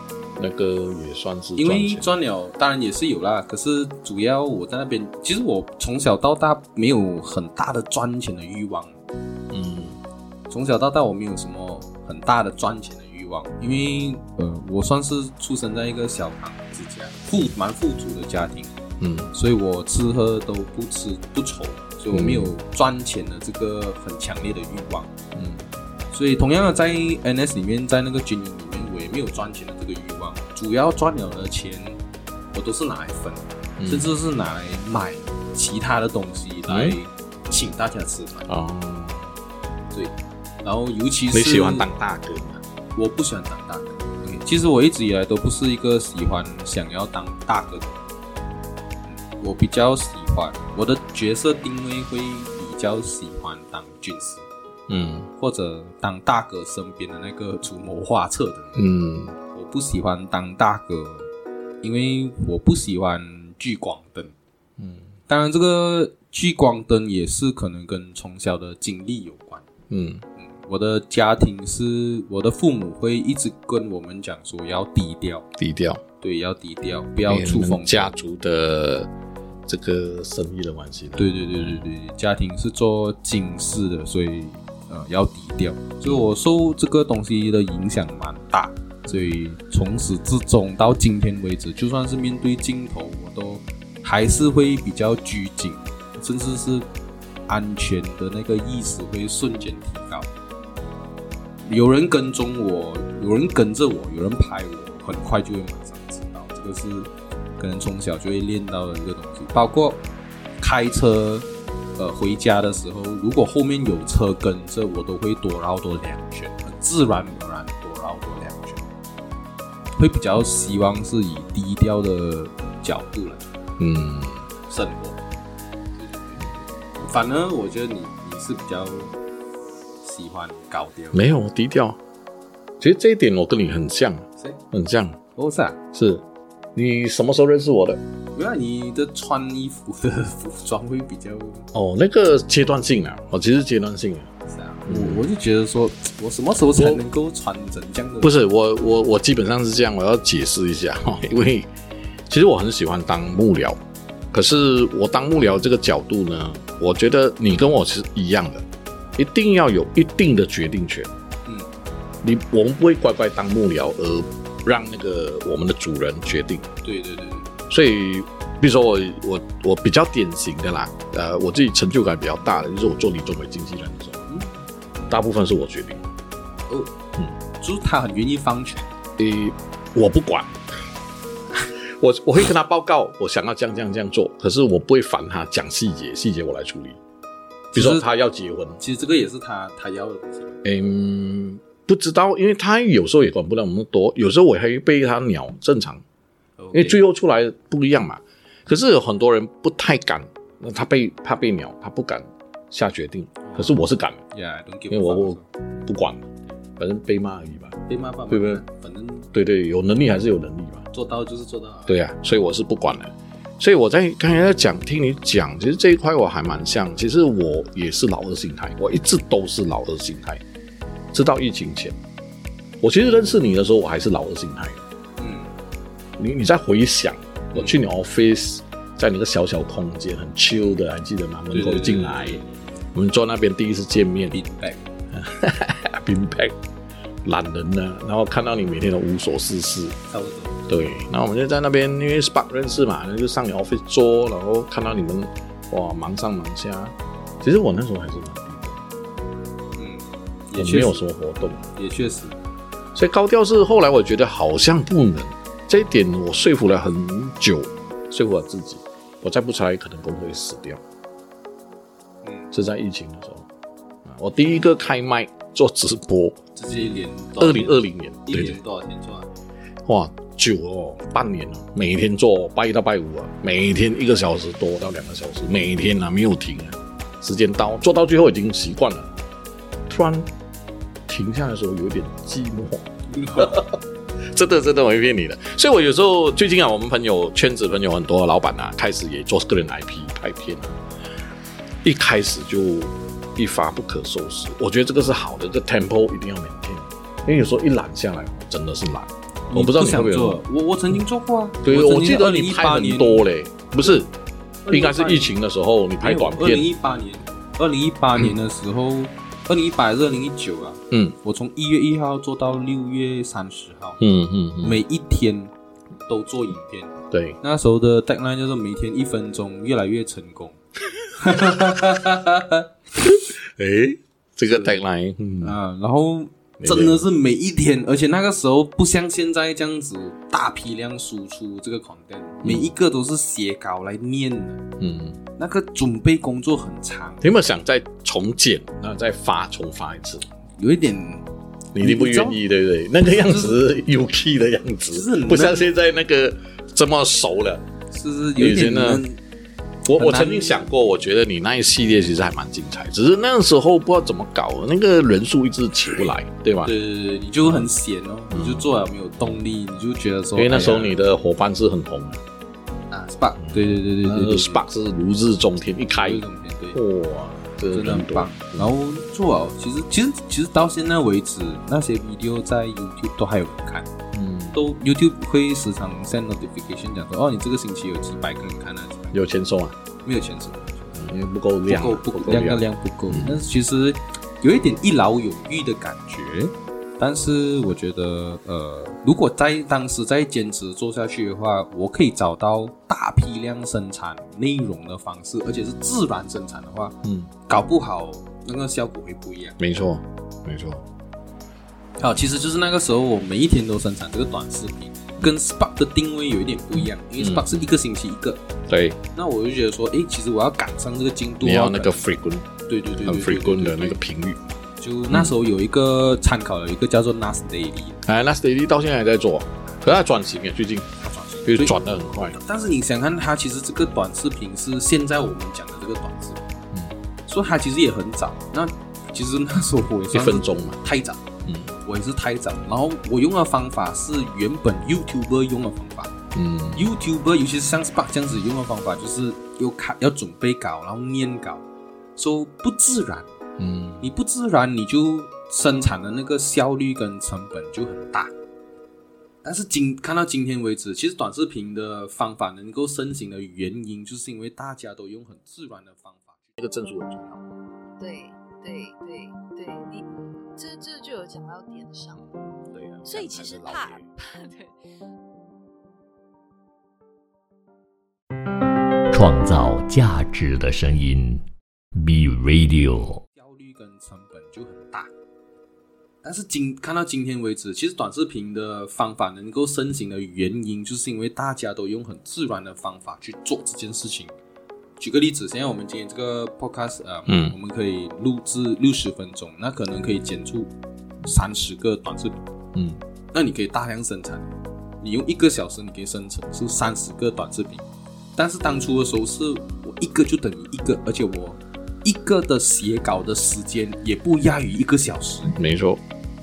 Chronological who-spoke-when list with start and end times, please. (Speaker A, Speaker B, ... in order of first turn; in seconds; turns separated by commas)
Speaker A: 0.4-2.1, Speaker B: 1.6-9.0, Speaker A: 9.5-10.0, Speaker B: 10.5-18.7, Speaker A: 19.0-19.3, Speaker B: 19.3-25.1, Speaker A: 22.1-22.5, Speaker A: 25.4-25.6, Speaker B: 26.1-32.0, Speaker B: 32.5-38.5, Speaker A: 33.8-34.1, Speaker A: 36.7-37.0, Speaker A: 38.5-39.3, Speaker B: 39.9-41.9, Speaker A: 41.3-42.6, Speaker B: 43.0-48.0, Speaker B: 49.1-54.5, Speaker A: 54.9-55.3, Speaker B: 55.4-58.9, Speaker A: 58.8-59.4, Speaker B: 59.5-61.3, Speaker B: 61.8-64.3, Speaker A: 64.8-65.1, Speaker B: 65.3-69.6, Speaker A: 69.9-70.2, Speaker B: 70.4-75.5, Speaker A: 75.6-76.0, Speaker B: 76.2-78.1, Speaker A: 77.3-79.1, Speaker A: 79.7-81.8, Speaker B: 81.2-96.9, Speaker A: 89.1-89.4, Speaker B: 97.5-100.3, Speaker B: 101.6-110.0, Speaker B: 110.6-118.9, Speaker B: 120.0-123.5, Speaker A: 123.8-124.5, Speaker B: 124.7-125.2, Speaker B: 126.0-129.1, Speaker B: 130.0-131.3, Speaker A: 131.1-132.0, Speaker A: 132.8-135.2, Speaker B: 135.4-135.8, Speaker A: 135.9-138.0, Speaker B: 138.3-141.7, Speaker A: 141.7-144.3, Speaker B: 144.5-148.4, Speaker A: 144.9-145.3, Speaker A: 146.8-147.0, Speaker A: 148.2-151.7, Speaker A: 152.3-153.8, Speaker A: 154.3-161.1, Speaker A: 162.2-166.7, Speaker B: 166.8-167.5, Speaker A: 167.7-174.3, Speaker B: 174.3-174.5, Speaker A: 175.1-176.1, Speaker B: 177.6-178.9, Speaker A: 179.2-180.6, Speaker A: 181.7-187.0, Speaker B: 187.7-188.1, Speaker A: 187.7-188.8, Speaker B: 188.8-190.6, Speaker A: 190.6-196.0, Speaker B: 196.6-197.0, Speaker A: 196.7-204.2, Speaker B: 203.4-203.8, Speaker B: 204.3-205.5, Speaker A: 204.9-206.3, Speaker A: 206.8-207.8, Speaker B: 207.9-209.3, Speaker A: 208.3-208.6, Speaker A: 209.3-210.8, Speaker B: 210.9-211.9, Speaker A: 211.9-220.4, Speaker A: 221.1-222.0, Speaker A: 222.8-224.8, Speaker B: 225.2-225.5, Speaker A: 226.2-232.4, Speaker B: 231.5-232.6, Speaker A: 232.9-234.4, Speaker B: 234.3-234.9, Speaker A: 235.1-236.6, Speaker A: 237.2-240.0, Speaker B: 240.1-240.6, Speaker A: 240.7-248.8, Speaker B: 249.8-251.0, Speaker A: 250.6-251.7, Speaker B: 251.8-252.4, Speaker A: 252.9-260.8, Speaker B: 262.2-262.5, Speaker A: 262.5-263.5, Speaker A: 264.1-266.4, Speaker B: 266.6-269.3, Speaker A: 267.4-268.6, Speaker A: 269.9-279.1, Speaker A: 279.9-280.3, Speaker A: 281.1-283.8, Speaker B: 283.1-283.6, Speaker A: 284.3-290.8, Speaker A: 291.8-300.4, Speaker B: 299.5-303.3, Speaker A: 301.6-304.1, Speaker B: 304.6-305.3, Speaker A: 304.7-306.7, Speaker B: 306.0-314.0, Speaker A: 310.9-311.2, Speaker A: 314.0-314.8, Speaker B: 314.6-315.5, Speaker B: 316.1-320.6, Speaker A: 317.1-317.4, Speaker B: 321.1-322.7, Speaker A: 323.0-325.6, Speaker B: 324.5-324.8, Speaker B: 325.4-334.6, Speaker A: 326.6-327.0, Speaker A: 332.4-332.7, Speaker A: 334.8-335.2, Speaker B: 335.4-337.3, Speaker A: 337.2-340.3, Speaker B: 340.6-341.3, Speaker A: 341.7-347.7, Speaker B: 341.8-342.4, Speaker B: 343.1-343.6, Speaker B: 344.9-345.7, Speaker B: 347.9-349.2, Speaker A: 348.4-349.0, Speaker A: 349.9-356.7, Speaker B: 349.9-350.6, Speaker B: 356.6-361.0, Speaker A: 358.3-358.7, Speaker A: 360.4-362.2, Speaker B: 362.9-364.6, Speaker A: 363.4-368.7, Speaker B: 366.0-366.8, Speaker B: 367.7-373.9, Speaker A: 374.1-374.6, Speaker B: 374.5-379.2, Speaker A: 379.1-379.8, Speaker B: 380.0-381.1, Speaker A: 380.9-383.4, Speaker B: 381.7-399.6, Speaker A: 397.0-397.3, Speaker A: 399.6-400.8, Speaker B: 402.0-408.4, Speaker A: 407.2-407.7, Speaker A: 408.7-409.0, Speaker B: 409.1-412.0, Speaker A: 411.4-412.5, Speaker B: 412.7-414.0, Speaker A: 413.1-414.4, Speaker B: 414.8-418.0, Speaker A: 418.1-420.9, Speaker B: 421.0-426.4, Speaker A: 421.4-422.4, Speaker B: 427.3-431.2, Speaker A: 430.1-430.8, Speaker A: 431.5-431.7, Speaker B: 431.9-436.1, Speaker A: 436.3-436.9, Speaker B: 436.8-441.6, Speaker B: 442.2-443.3, Speaker A: 443.6-444.1, Speaker B: 444.0-448.3, Speaker B: 449.4-456.5, Speaker A: 456.6-457.4, Speaker C: 458.0-462.2, Speaker A: 462.7-464.1, Speaker C: 463.1-464.8, Speaker D: 469.1-471.4, Speaker D: 472.0-473.2, Speaker B: 473.3-475.1, Speaker B: 476.2-484.3, Speaker B: 485.0-490.7, Speaker A: 487.3-487.6, Speaker B: 491.2-492.4, Speaker A: 492.7-493.0, Speaker B: 493.3-494.5, Speaker B: 495.0-497.9, Speaker B: 498.4-505.5, Speaker A: 505.5-506.0